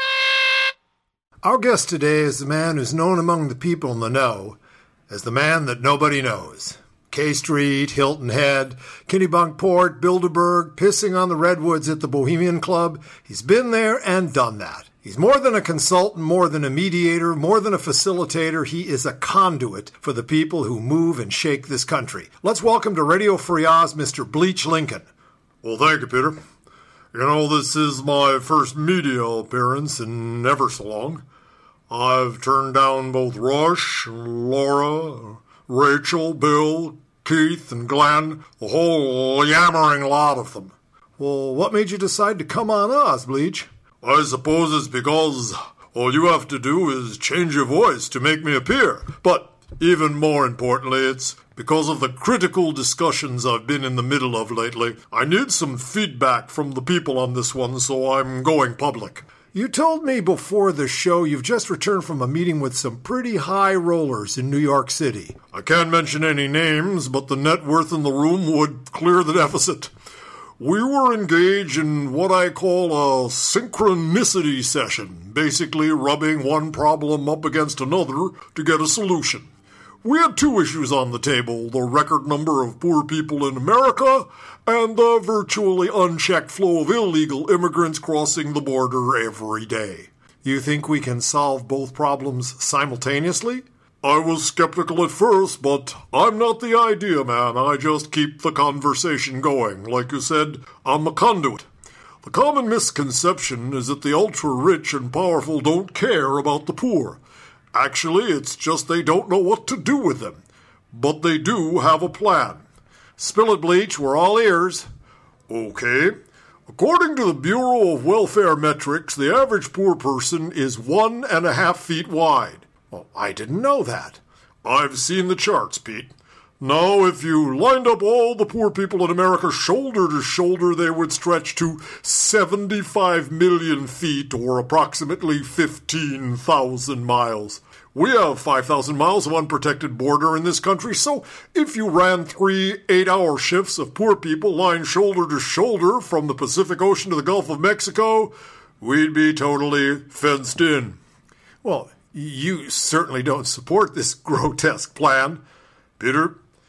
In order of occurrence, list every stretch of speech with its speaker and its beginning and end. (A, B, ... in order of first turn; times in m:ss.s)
0:01.4-0:25.1 A
0:25.6-0:26.4 A
0:27.1-0:31.2 A
0:31.9-1:09.9 A
1:10.6-1:19.5 A
1:20.0-1:41.7 A
1:42.2-1:47.2 A
1:47.8-1:50.4 A
1:50.9-1:52.6 A
1:53.2-1:54.9 A
1:55.5-1:56.2 A
1:56.7-2:31.0 A
2:31.6-2:35.4 A
2:36.0-2:36.4 A